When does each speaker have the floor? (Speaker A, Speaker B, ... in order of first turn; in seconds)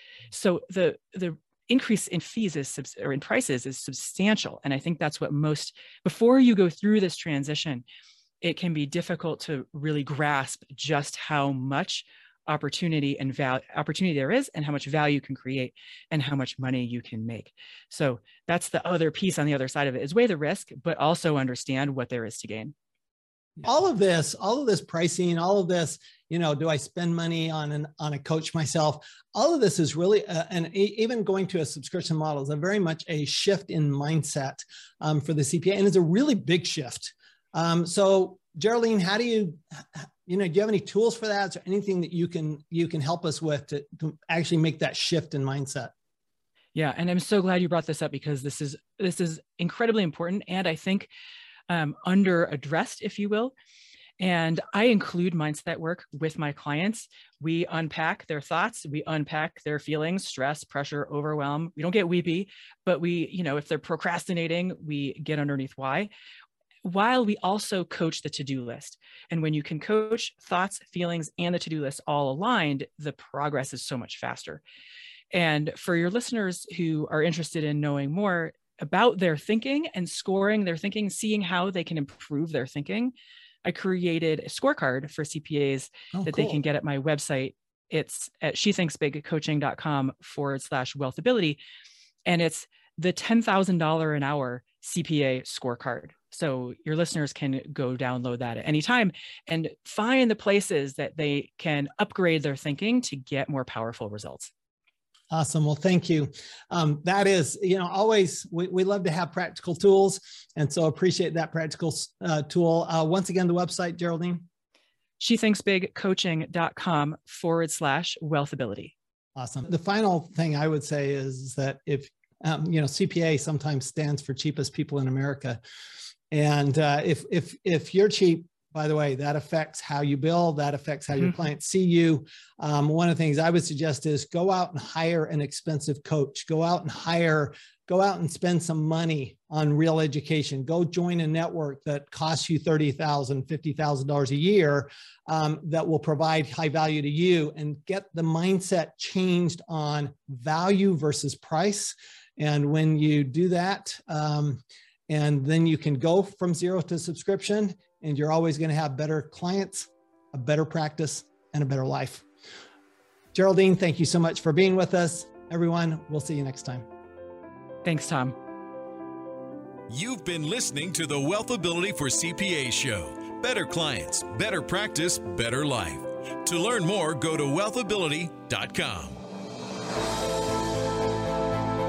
Speaker A: 0.3-7.8, 8.4-22.7, 46.7-51.1, 51.7-53.5, 54.2-66.1, 66.8-74.6, 75.3-91.6, 92.2-104.5, 115.2-118.9, 167.8-168.4
Speaker B: 23.6-45.9, 86.2-86.6, 105.3-114.5, 119.3-125.6, 126.3-162.2, 163.3-166.8
Speaker C: 169.9-179.2